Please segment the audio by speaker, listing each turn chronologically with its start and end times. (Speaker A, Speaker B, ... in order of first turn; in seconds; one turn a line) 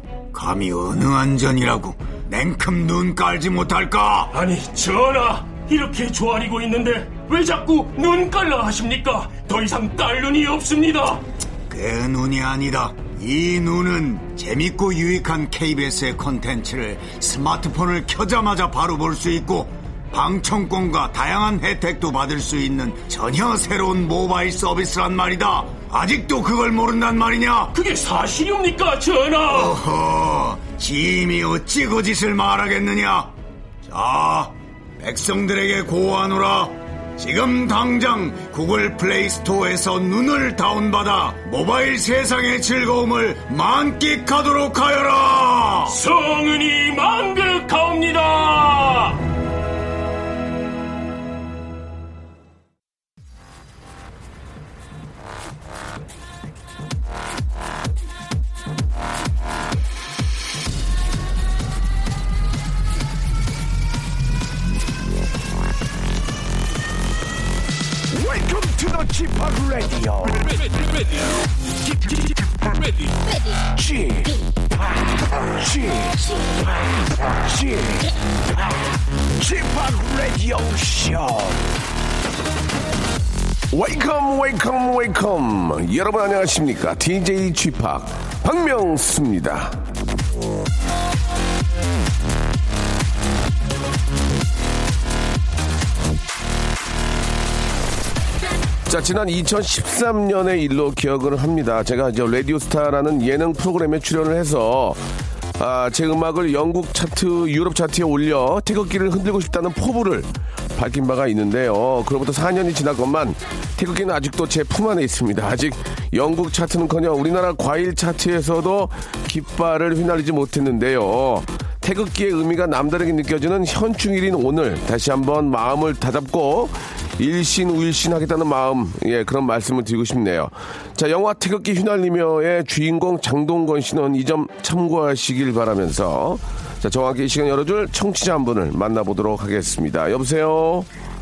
Speaker A: 0.3-4.3
Speaker B: 4.3-11.2
Speaker A: 11.7-27.8
Speaker B: 27.7-29.8
Speaker A: 29.5-33.4
Speaker A: 33.9-46.0
Speaker B: 45.9-49.2
Speaker C: 68.1-70.9
Speaker C: 71.8-81.7
Speaker C: 83.7-89.8
Speaker C: 98.9-105.0
Speaker C: 105.6-140.9